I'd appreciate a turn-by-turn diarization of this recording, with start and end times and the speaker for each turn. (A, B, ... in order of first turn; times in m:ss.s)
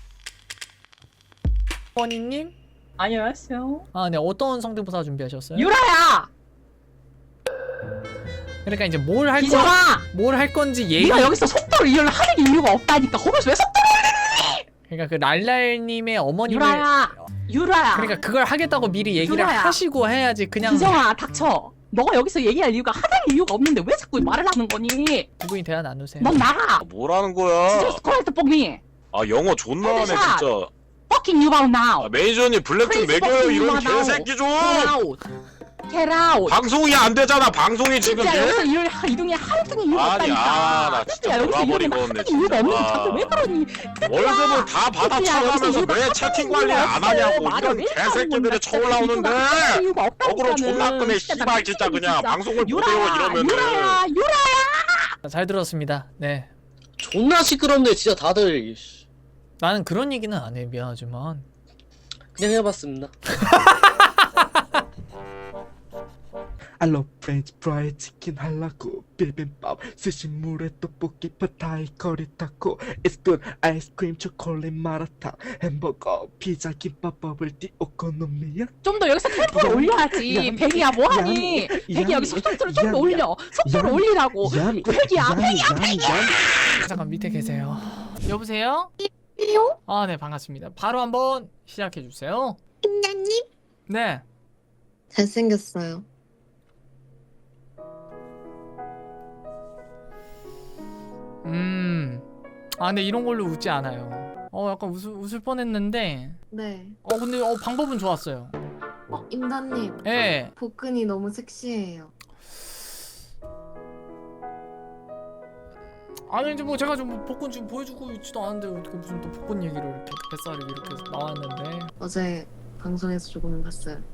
0:02.0-0:02.5 A
0:03.0-0:03.8 B
0:03.9-0:05.7 A
0:05.5-0:06.3 B
0:08.6-0:11.4 A
0:09.4-0:10.0 B
0:11.0-0:14.6 B
0:14.9-0:17.3 A
0:16.4-0:18.2 B
0:17.9-0:21.0 A
0:19.2-0:19.8 B
0:20.7-0:25.3 B
0:25.4-0:26.4 A
0:26.2-0:26.8 B
0:26.8-0:28.0 C
0:27.7-0:28.8 B
0:29.1-0:30.7 C
0:29.8-0:30.4 B
0:31.1-0:32.1 B
0:32.0-0:35.0 C
0:32.8-0:35.2 B
0:35.9-0:36.6 B
0:36.4-0:38.7 C
0:38.0-0:55.1 B
0:39.9-0:43.4 C
0:44.1-0:54.0 C
0:55.2-0:56.5 A
0:57.0-0:59.0 D
0:59.6-1:01.4 A
1:02.3-1:03.2 D
1:06.8-1:26.5 E
1:18.8-1:26.0 B
1:26.8-1:28.9 A
1:29.4-1:29.7 F
1:29.8-1:32.6 A
1:32.9-1:33.4 F
1:33.9-1:34.2 A
1:35.1-1:36.0 F
1:41.4-1:42.2 A
1:42.8-1:46.4 A
1:46.5-1:47.0 F
1:47.0-1:48.5 A
1:49.1-1:50.0 F
1:50.0-1:50.5 A
1:50.6-1:52.1 F
1:56.3-2:01.9 A
2:02.0-2:04.0 F